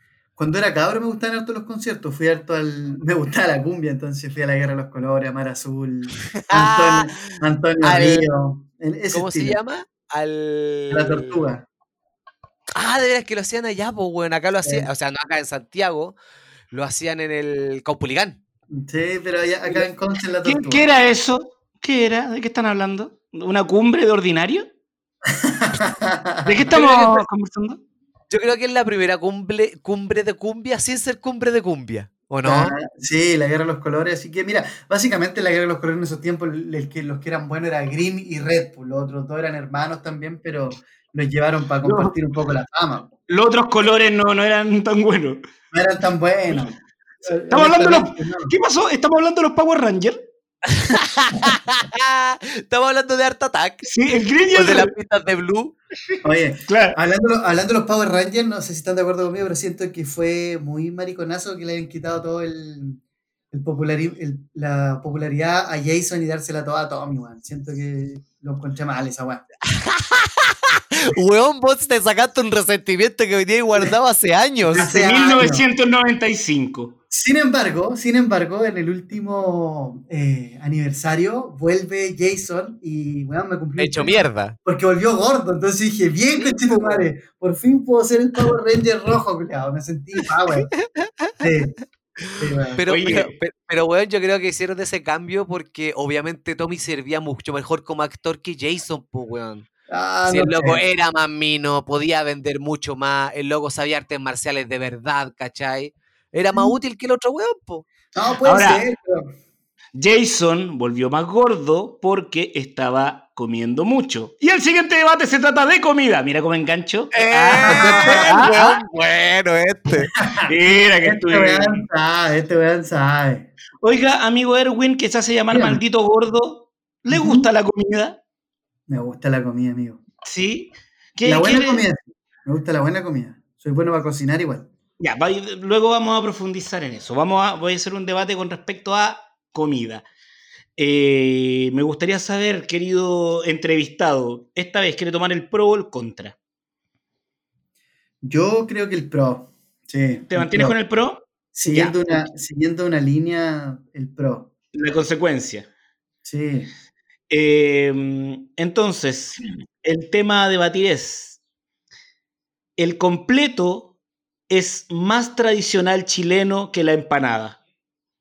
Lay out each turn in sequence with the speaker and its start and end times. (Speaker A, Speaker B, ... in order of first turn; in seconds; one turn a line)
Speaker A: 0.4-9.6
Speaker B: 6.4-8.2
Speaker B: 9.1-11.4
Speaker A: 10.9-11.6
Speaker B: 12.7-16.2
Speaker A: 14.6-14.9
Speaker B: 16.7-18.4
Speaker A: 18.7-20.8
Speaker C: 20.4-24.6
Speaker A: 25.3-27.2
Speaker C: 26.4-27.8
Speaker B: 28.3-32.7
Speaker A: 32.4-43.1
Speaker C: 41.8-42.1
Speaker C: 43.3-45.4
Speaker A: 45.7-48.5
Speaker C: 47.5-50.2
Speaker B: 50.7-53.9
Speaker C: 53.8-54.9
Speaker B: 54.5-55.8
Speaker A: 56.2-63.0
Speaker C: 56.7-57.0
Speaker A: 63.5-69.4
Speaker B: 69.7-74.9
Speaker A: 74.7-75.7
Speaker C: 74.8-77.0
Speaker A: 77.1-90.7
Speaker B: 83.8-84.6
Speaker B: 86.3-87.1
Speaker B: 90.5-91.3
Speaker A: 91.4-91.8
Speaker B: 92.2-99.7
Speaker A: 92.3-92.8
Speaker C: 92.9-93.3
Speaker A: 99.9-100.8
Speaker B: 100.3-107.9
Speaker A: 108.1-109.3
Speaker C: 108.4-108.8
Speaker C: 109.9-118.8
Speaker B: 117.1-120.1
Speaker A: 117.6-118.3
Speaker A: 120.2-120.5
Speaker C: 120.5-121.8
Speaker A: 121.0-123.5
Speaker C: 123.8-128.2
Speaker A: 125.5-125.8
Speaker A: 127.1-127.5
Speaker A: 128.9-130.0
Speaker C: 130.2-131.8
Speaker A: 131.2-134.7
Speaker C: 135.0-140.0
Speaker C: 140.8-146.3
Speaker A: 148.2-150.8
Speaker C: 150.3-152.3
Speaker A: 151.5-154.5
Speaker C: 154.7-155.7
Speaker A: 156.2-156.7
Speaker C: 157.3-161.4
Speaker C: 162.8-163.9
Speaker C: 164.5-167.6